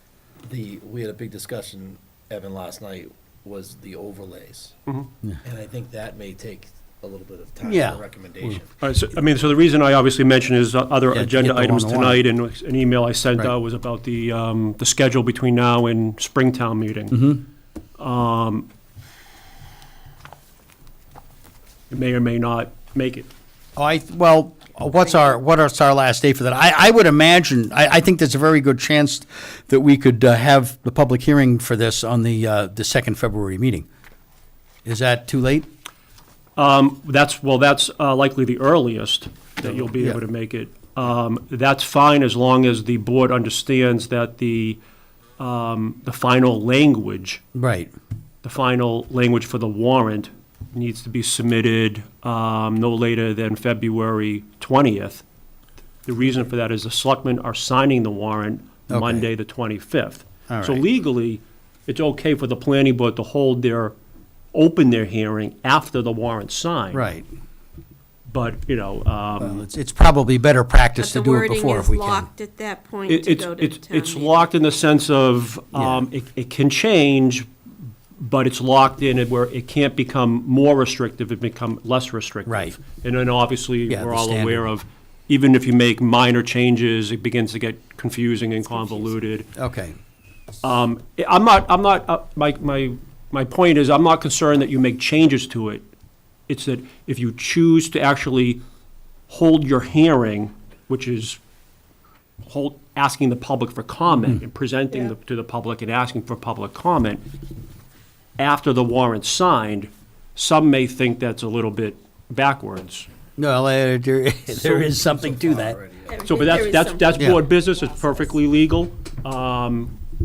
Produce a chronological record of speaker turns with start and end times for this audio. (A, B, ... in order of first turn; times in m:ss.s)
0:00.4-0:04.8 A
0:05.4-0:08.8 A
0:07.6-0:08.6 B
0:08.8-0:17.3 C
0:11.1-0:12.2 B
0:17.1-0:17.4 B
0:18.0-0:18.7 C
0:21.9-0:23.3 C
0:23.8-0:33.8 B
0:34.8-0:35.7 B
0:36.6-0:44.8 C
0:39.6-0:40.2 B
0:45.4-0:47.4 C
0:47.5-0:47.9 B
0:48.4-0:55.2 C
0:56.0-1:03.9 C
0:58.9-0:59.3 B
1:00.5-1:00.8 B
1:04.5-1:07.0 C
1:06.9-1:07.2 B
1:08.3-1:09.6 C
1:09.4-1:12.3 B
1:11.0-1:14.4 D
1:13.1-1:17.5 C
1:15.7-1:16.0 B
1:18.2-1:29.5 C
1:22.5-1:22.7 B
1:23.9-1:24.7 B
1:29.6-1:30.0 B
1:30.6-1:35.8 C
1:36.5-1:38.6 C
1:39.3-1:41.4 C
1:42.4-1:47.2 C
1:48.4-1:53.1 C
1:53.4-1:55.8 B
1:54.8-1:56.6 A
1:56.1-1:57.2 D
1:56.2-1:59.9 C